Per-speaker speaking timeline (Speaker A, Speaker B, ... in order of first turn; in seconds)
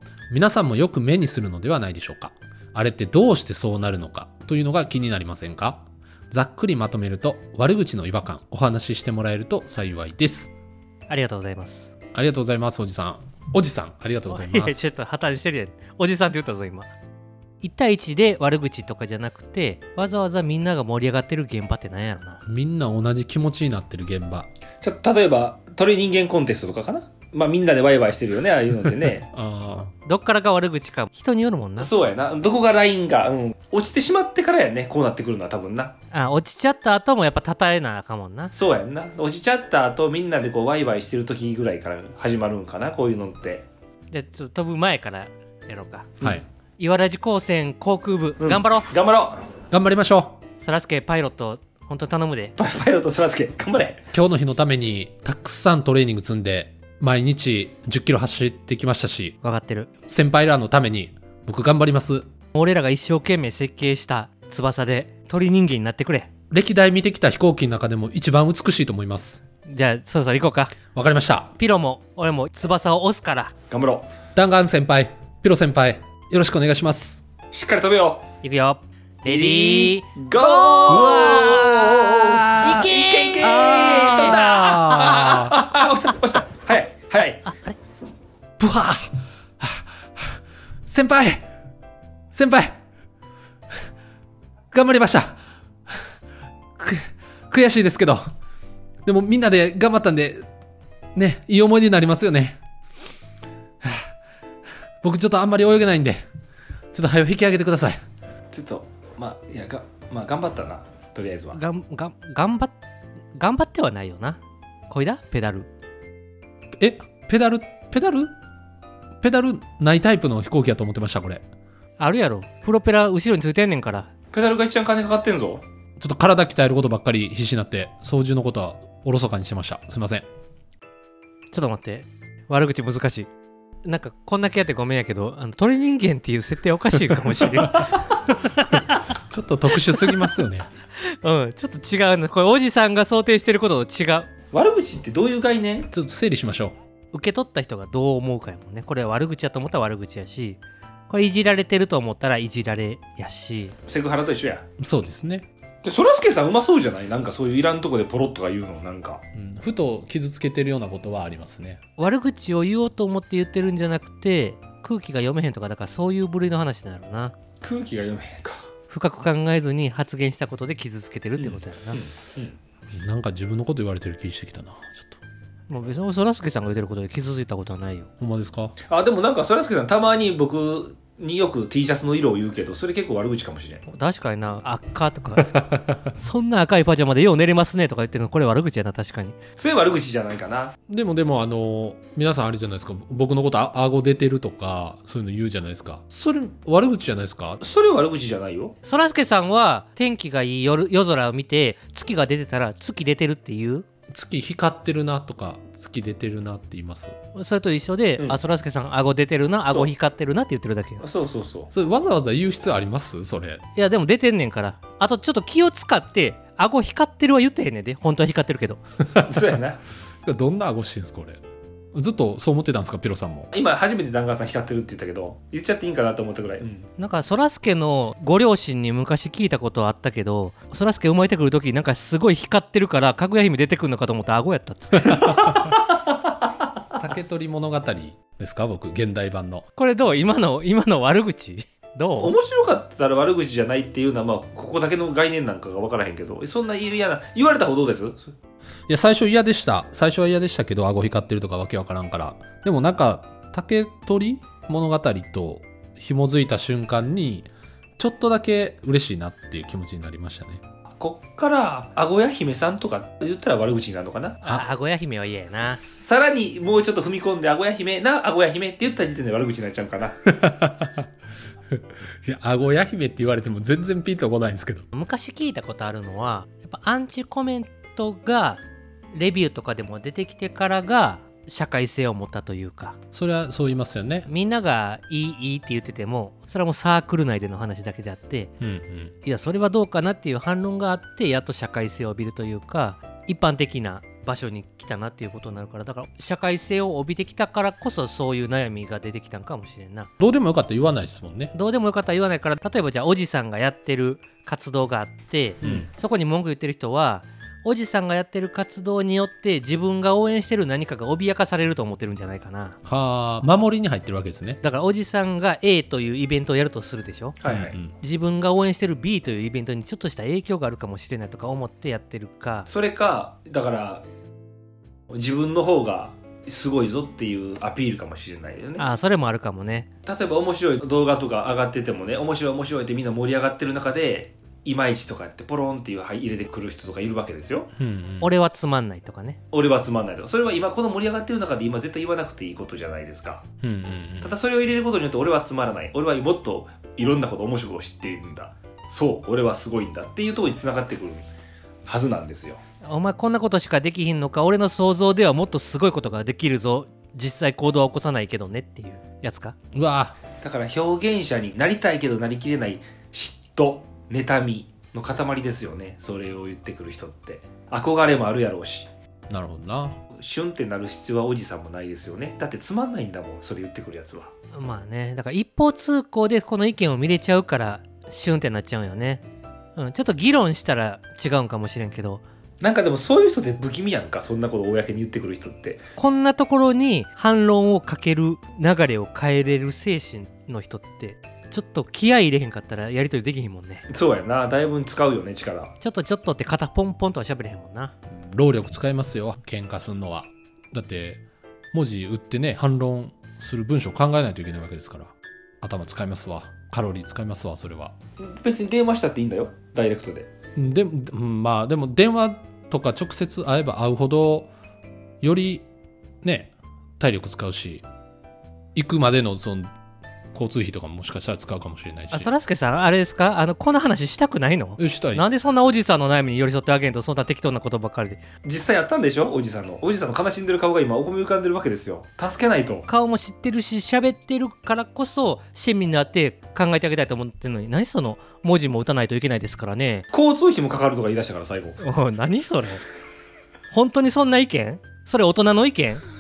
Speaker A: 0.3-10.5, 12.1-14.9, 22.5-24.5, 29.3-29.9, 49.7-50.4, 54.1-59.4, 60.1-62.3, 66.5-69.4, 70.9-71.5, 74.4-77.2, 80.9-82.9, 83.4-85.6, 88.6-91.5, 92.3-92.8, 94.7-96.0, 96.8-98.3, 99.0-100.5, 101.2-102.6, 103.8-104.1, 105.0-106.3, 106.9-108.0, 116.8-118.3, 119.2-121.4, 126.0-130.3, 139.2-140.7, 145.9-146.8, 154.8-155.5, 159.3-161.8, 172.9-175.2, 178.2-178.8, 185.5-185.8, 190.9-197.6, 204.1-207.2, 211.7-213.6, 220.2-221.4, 221.9-223.5, 237.0-239.7, 248.9-260.6, 270.3-271.1, 271.8-274.9, 283.1-284.3, 288.6-289.1, 300.2-301.5, 312.9-314.6, 317.5-317.9, 337.8-338.3, 343.6-344.4, 359.7-360.2, 369.3-370.0, 398.1-407.9, 410.6-414.5, 415.2-415.7, 416.2-417.9, 418.8-419.7, 420.3-422.3, 424.8-425.3
Speaker B: 11.1-11.9, 14.3-16.9, 17.6-22.4, 30.1-31.9, 36.1-38.5, 44.1-46.2, 46.8-48.9, 50.6-52.5, 59.4-59.9, 62.5-66.3, 69.7-70.8, 71.5-73.5, 78.4-82.0, 82.6-85.4, 87.5-87.8, 111.5-112.8, 113.3-115.7, 122.0-124.1, 131.5-133.3, 133.8-139.0, 141.1-144.3, 147.1-153.8, 162.0-167.3, 168.9-172.0, 175.7-178.1, 183.9-185.6, 186.2-189.4, 198.8-203.9, 207.3-211.0, 213.8-218.8, 227.0-235.2, 239.8-242.3, 264.4-265.8, 274.9-278.6, 279.1-283.0, 284.3-288.5, 289.2-300.1, 301.5-312.8, 314.6-317.4, 317.9-322.7, 328.8-329.9, 338.2-339.4, 352.8-359.6, 374.5-379.2, 379.8-382.2, 386.0-393.9, 395.8-397.9, 422.1-428.2, 432.9-440.1, 441.8-442.8, 443.7-446.0
Speaker C: 24.8-29.3, 31.8-36.0, 38.5-43.7, 48.4-49.5, 52.6-54.0, 73.7-74.1, 77.5-78.3, 79.3-87.5, 108.5-111.6, 124.3-125.6, 144.5-145.9, 153.9-154.6, 155.8-159.2, 167.6-168.6, 171.4-172.6, 178.9-183.8, 189.6-190.7, 197.6-198.7, 211.0-211.7, 219.2-219.8, 223.5-226.9, 235.1-235.8, 242.2-248.3, 261.0-264.4, 265.8-270.2, 317.4-317.8, 322.7-324.1, 325.1-328.9, 330.1-337.7, 339.5-343.4, 344.2-351.2, 351.9-352.6, 360.4-368.9, 370.2-374.3, 382.6-385.8, 393.9-395.7, 408.2-410.3, 428.4-432.9, 440.1-441.8